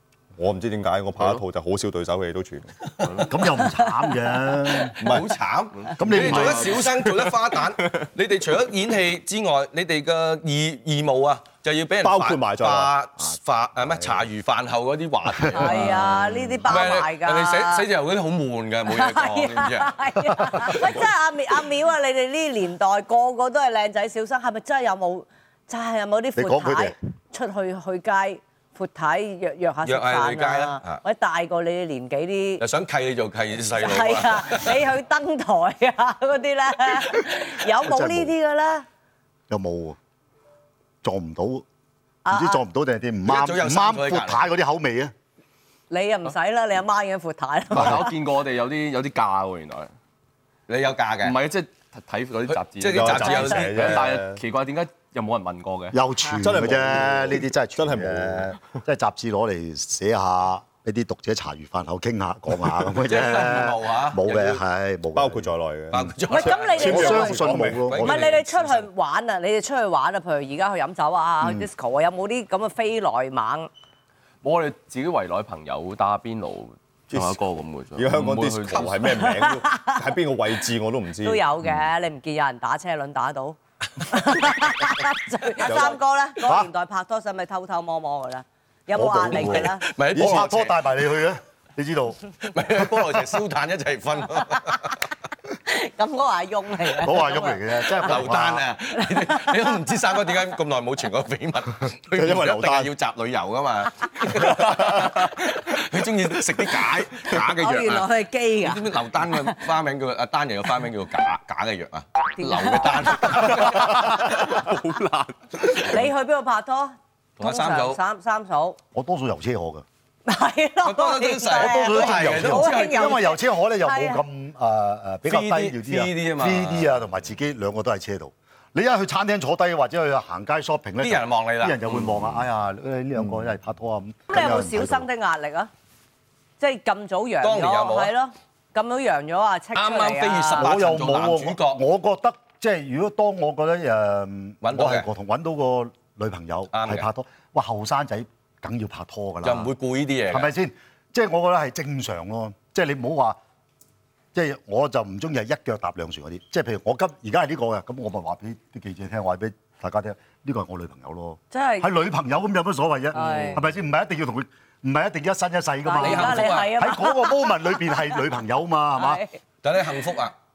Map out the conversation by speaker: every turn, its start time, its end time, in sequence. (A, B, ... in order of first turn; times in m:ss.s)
0:00.4-0:02.7 A
0:01.2-0:01.4 B
0:03.0-0:03.4 B
0:03.3-0:05.0 C
0:05.0-0:05.3 A
0:05.0-0:15.9 D
0:05.8-0:06.6 B
0:06.0-0:06.8 C
0:06.1-0:07.4 A
0:12.0-0:12.9 A
0:13.8-0:14.2 C
0:15.5-0:17.8 E
0:16.6-0:20.9 D
0:18.9-0:32.6 E
0:26.4-0:27.0 C
0:29.8-0:31.0 D
0:32.6-0:34.8 D
0:33.8-0:38.8 E
0:37.8-0:38.3 C
0:39.5-0:40.0 C
0:41.0-0:41.6 C
0:42.2-0:42.6 E
0:42.3-0:45.1 C
0:43.3-0:44.5 D
0:45.9-0:48.1 E
0:47.7-0:49.9 B
0:50.7-0:51.4 D
0:51.2-0:56.0 B
0:52.5-0:54.0 D
0:52.9-0:54.4 A
0:55.9-1:06.1 C
0:56.4-0:58.6 A
1:03.0-1:04.6 D
1:05.2-1:08.3 A
1:05.9-1:08.9 D
1:06.3-1:07.4 E
1:06.7-1:08.3 C
1:08.0-1:13.7 E
1:11.4-1:11.7 C
1:14.4-1:19.2 B
1:17.1-1:17.4 A
1:18.0-1:21.4 A
1:19.1-1:20.0 E
1:21.2-1:23.6 E
1:24.1-1:29.8 E
1:25.6-1:26.0 A
1:26.4-1:26.7 C
1:28.9-1:32.2 C
1:29.3-1:30.8 D
1:30.2-1:30.5 A
1:32.5-1:35.0 D
1:35.7-1:38.1 E
1:37.0-1:38.7 C
1:38.0-1:48.1 D
1:39.0-1:39.5 E
1:42.1-1:42.9 A
1:44.5-1:44.8 A
1:47.6-1:49.6 E
1:48.6-1:54.2 D
1:52.4-1:53.7 E
1:53.7-1:55.3 B
1:55.8-1:58.8 E
1:57.4-1:58.0 D
1:58.9-1:59.8 C
2:00.3-2:04.2 E
2:00.8-2:03.2 D
2:01.5-2:15.1 C
2:05.3-2:07.0 D
2:11.0-2:12.4 D
2:14.3-2:15.7 E
2:16.6-2:20.6 E
2:17.4-2:18.1 D
2:19.8-2:21.8 D
2:20.6-2:29.7 C
2:24.6-2:25.1 D
2:26.7-2:27.1 D
2:29.4-2:30.5 D
2:30.3-2:33.4 C
2:34.3-2:49.2 C
2:41.5-2:41.9 E
2:43.1-2:43.6 E
2:45.8-2:48.1 E
2:46.0-2:46.7 D
2:49.0-2:49.4 E
2:49.6-2:50.3 D